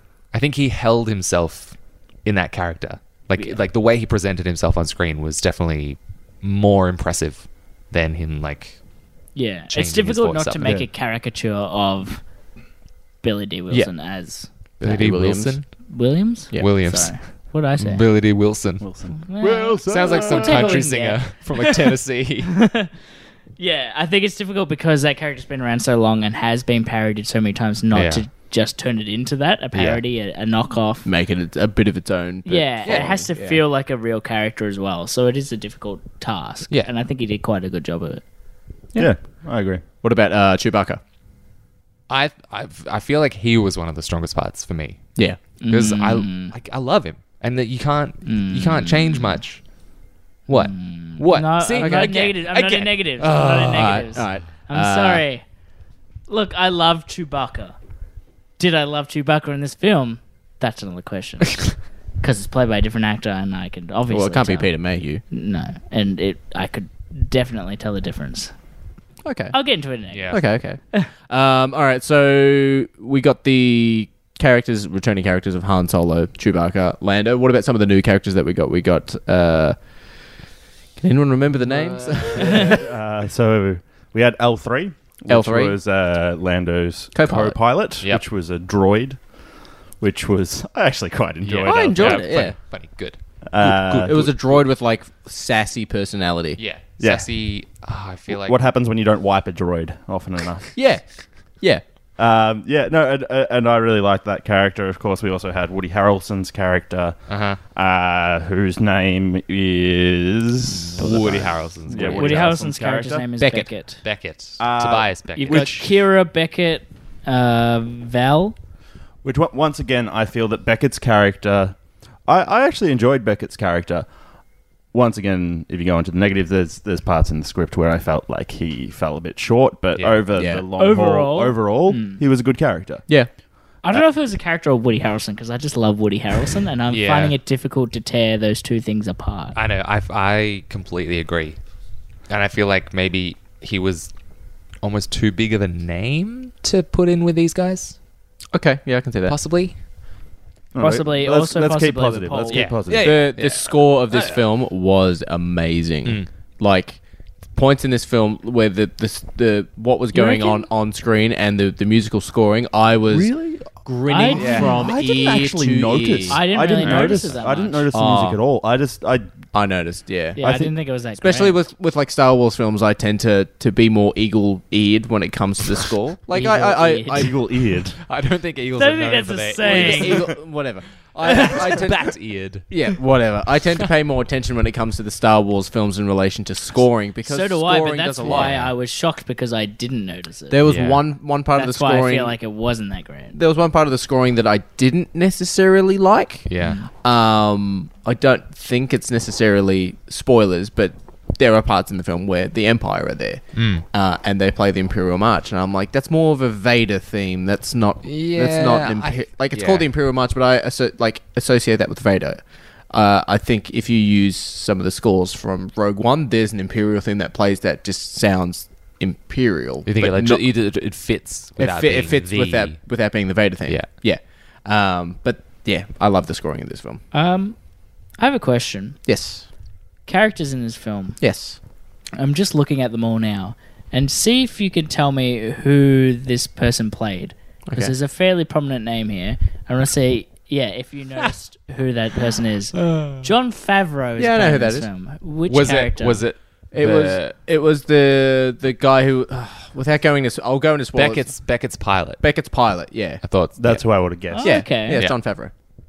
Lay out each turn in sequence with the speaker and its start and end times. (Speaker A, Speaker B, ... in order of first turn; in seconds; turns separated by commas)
Speaker A: 0.3-8.8, Speaker B: 9.3-12.2, Speaker A: 9.7-10.8, Speaker B: 13.2-14.5, Speaker A: 14.8-15.7, Speaker C: 14.8-15.6, Speaker B: 15.9-18.0, Speaker A: 16.6-17.1, Speaker A: 17.7-18.9, Speaker D: 18.8-20.7, Speaker B: 19.2-21.8, Speaker A: 19.9-22.6, Speaker B: 22.6-22.9, Speaker B: 23.6-31.1, Speaker A: 27.9-28.2, Speaker A: 29.7-30.0, Speaker C: 31.0-33.6, Speaker B: 32.4-38.2, Speaker A: 32.9-33.1, Speaker D: 39.0-39.8, Speaker C: 40.0-41.0, Speaker A: 42.1-49.6, Speaker B: 45.6-46.5, Speaker B: 48.2-49.4, Speaker A: 50.5-54.1, Speaker B: 50.5-55.4, Speaker C: 51.8-52.3, Speaker C: 53.7-55.2, Speaker B: 56.3-57.8, Speaker B: 58.6-68.5, Speaker C: 64.1-65.2, Speaker C: 69.2-69.8, Speaker B: 69.5-71.1, Speaker A: 70.1-70.5, Speaker C: 70.3-79.8, Speaker C: 81.0-82.8, Speaker A: 81.8-82.3, Speaker D: 82.1-89.2, Speaker C: 85.3-85.8, Speaker C: 87.1-87.7, Speaker D: 90.0-92.4, Speaker A: 91.4-94.2, Speaker C: 91.6-92.6, Speaker D: 93.5-94.6, Speaker C: 93.6-96.6, Speaker A: 96.6-98.6, Speaker D: 97.0-97.3, Speaker D: 98.3-100.8, Speaker C: 100.8-101.8, Speaker D: 102.2-113.2, Speaker A: 107.3-107.6, Speaker A: 110.7-112.6, Speaker B: 112.1-114.0, Speaker C: 113.4-113.7, Speaker A: 114.0-115.8, Speaker D: 114.6-115.9, Speaker B: 115.3-118.5, Speaker D: 119.2-124.1, Speaker D: 124.9-133.0, Speaker C: 130.3-130.6, Speaker B: 130.8-132.2, Speaker B: 133.8-139.6, Speaker A: 136.9-137.3, Speaker A: 139.5-141.6, Speaker A: 142.3-144.1, Speaker A: 144.8-148.0, Speaker C: 148.5-149.4, Speaker A: 149.3-149.8, Speaker D: 150.7-153.3, Speaker B: 150.8-152.7, Speaker A: 152.5-154.4, Speaker C: 152.9-167.1, Speaker A: 156.0-156.3, Speaker B: 160.1-160.7, Speaker D: 163.1-169.4, Speaker B: 164.1-164.8, Speaker B: 166.3-167.8, Speaker C: 167.9-168.4, Speaker C: 169.5-170.4, Speaker B: 170.3-171.6, Speaker D: 170.4-170.7, Speaker C: 171.2-177.3, Speaker B: 176.3-177.3, Speaker D: 177.1-178.0, Speaker A: 178.1-180.3, Speaker B: 178.8-180.3, Speaker C: 179.6-182.1, Speaker A: 181.2-182.7, Speaker C: 182.7-188.6, Speaker B: 187.2-190.6, Speaker A: 188.2-188.7, Speaker C: 190.5-192.3, Speaker A: 190.6-191.0, Speaker B: 191.5-193.3, Speaker C: 193.3-196.5, Speaker A: 196.5-196.8, Speaker B: 196.6-196.9, Speaker C: 197.0-220.4, Speaker A: 203.5-203.8, Speaker A: 208.0-209.8, Speaker A: 219.8-222.8, Speaker C: 221.6-227.0, Speaker B: 227.1-227.6, Speaker B: 228.2-229.0, Speaker C: 229.1-229.5, Speaker B: 230.1-231.2, Speaker C: 231.2-231.6, Speaker B: 232.2-246.2, Speaker C: 237.7-237.9, Speaker C: 244.2-244.9, Speaker A: 245.5-247.2, Speaker C: 246.7-251.4, Speaker A: 250.9-252.2, Speaker C: 252.2-253.2, Speaker A: 253.2-253.8, Speaker D: 253.6-254.7, Speaker B: 254.3-255.0, Speaker C: 254.4-255.5, Speaker A: 254.9-255.2